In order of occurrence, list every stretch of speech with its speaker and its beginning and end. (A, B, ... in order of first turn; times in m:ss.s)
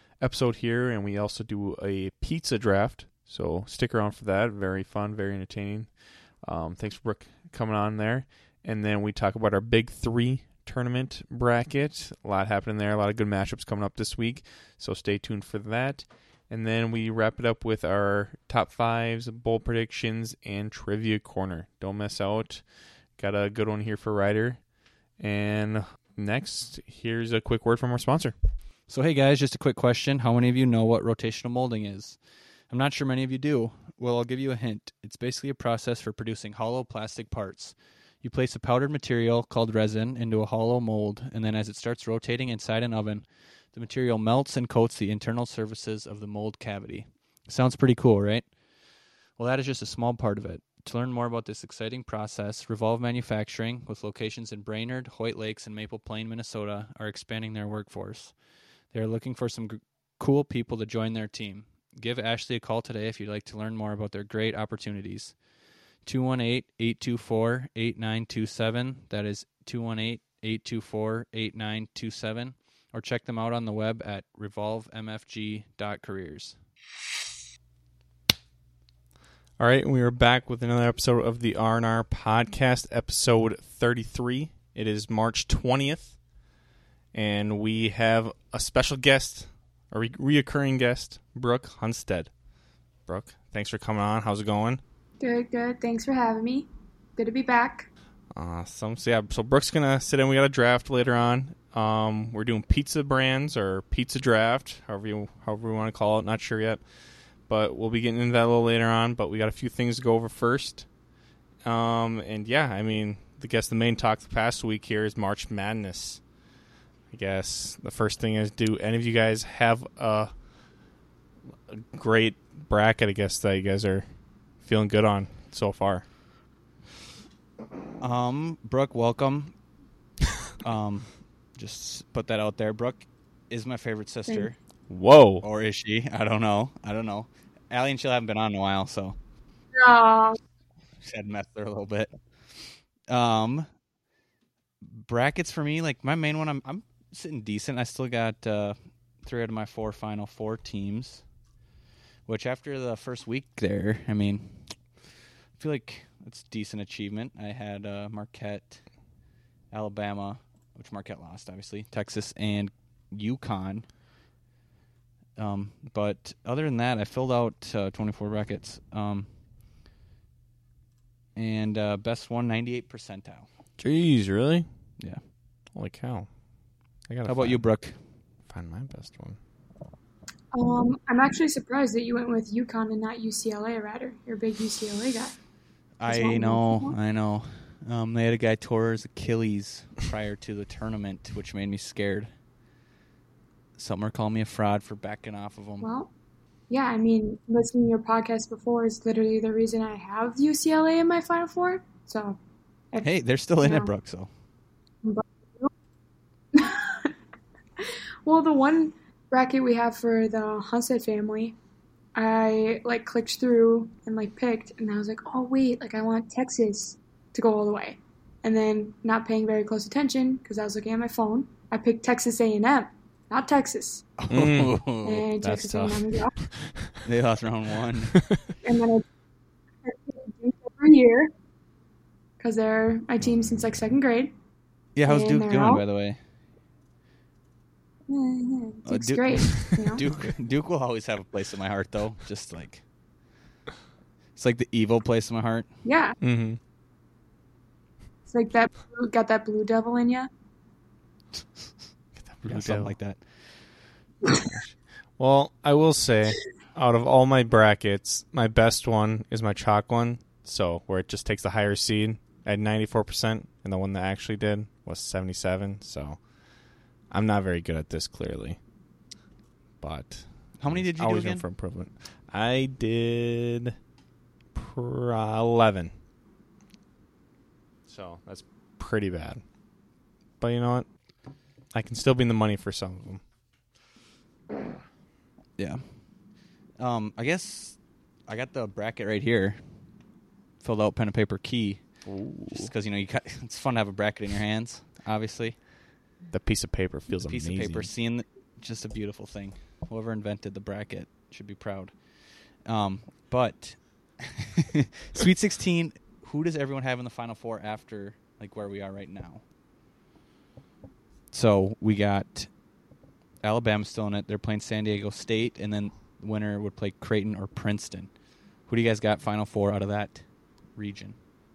0:00.2-0:22.6 A
0:23.2-0:24.6 A
0:25.2-0:28.3 A
0:28.9-0:32.2 B
0:32.7-0:48.5 B
0:49.4-0:58.3 B
0:58.9-1:05.3 B
1:06.0-1:16.6 B
1:19.6-1:26.2 A
1:27.1-1:32.3 A
1:33.1-1:34.8 A
1:35.2-1:37.9 C
1:38.3-1:46.8 A
1:47.5-1:50.9 A
1:51.6-1:56.2 A
1:57.1-2:00.3 A
2:01.7-2:04.0 A
2:04.6-2:06.0 A
2:08.0-2:09.5 B
2:10.6-2:14.6 B
2:14.9-2:15.4 A
2:15.4-2:19.2 B
2:19.7-2:20.4 C
2:21.0-2:23.7 B
2:24.8-2:31.2 B
2:32.2-2:34.7 B
2:35.6-2:38.8 B
2:39.7-2:43.9 B
2:45.4-2:49.3 B
2:51.4-2:53.5 B
2:53.8-2:54.6 A
2:55.7-2:56.3 A
2:57.1-2:57.6 A
2:57.2-2:58.0 B
2:58.5-2:59.4 A
3:00.5-3:05.4 C
3:06.0-3:12.3 B
3:06.0-3:07.0 C
3:13.8-3:15.9 B
3:15.8-3:16.1 C
3:16.7-3:22.4 C
3:23.0-3:24.3 B
3:23.6-3:23.9 C
3:25.0-3:25.7 C
3:26.5-3:27.1 C
3:27.8-3:31.6 C
3:32.1-3:44.1 C
3:44.2-3:46.1 B
3:44.3-3:44.8 A
3:45.0-3:46.4 C
3:46.6-3:46.9 A
3:47.0-3:48.2 B
3:48.6-3:49.0 C
3:49.8-3:51.3 C
3:52.4-3:54.3 C
3:53.2-3:53.6 A
3:55.0-3:56.2 B
3:55.0-3:55.8 C
3:58.1-4:00.0 C
3:58.8-4:02.8 B
4:04.4-4:05.7 B
4:05.8-4:06.2 C
4:06.2-4:06.6 A
4:08.3-4:10.3 C
4:12.2-4:13.0 A
4:12.4-4:13.2 B
4:14.4-4:26.2 A
4:27.1-4:28.6 A
4:29.8-4:33.7 A
4:30.6-4:31.4 B
4:34.5-4:35.9 A
4:37.9-4:39.4 A
4:40.4-4:40.9 A
4:41.7-4:43.2 A
4:45.6-4:45.8 B
4:46.8-4:49.6 B
4:50.6-4:51.8 B
4:52.0-4:52.7 A
4:52.5-4:55.6 B
4:56.3-4:57.9 A
4:57.2-5:09.4 B
5:11.3-5:12.5 B
5:13.4-5:18.1 B
5:18.7-5:20.2 B
5:20.7-5:21.2 B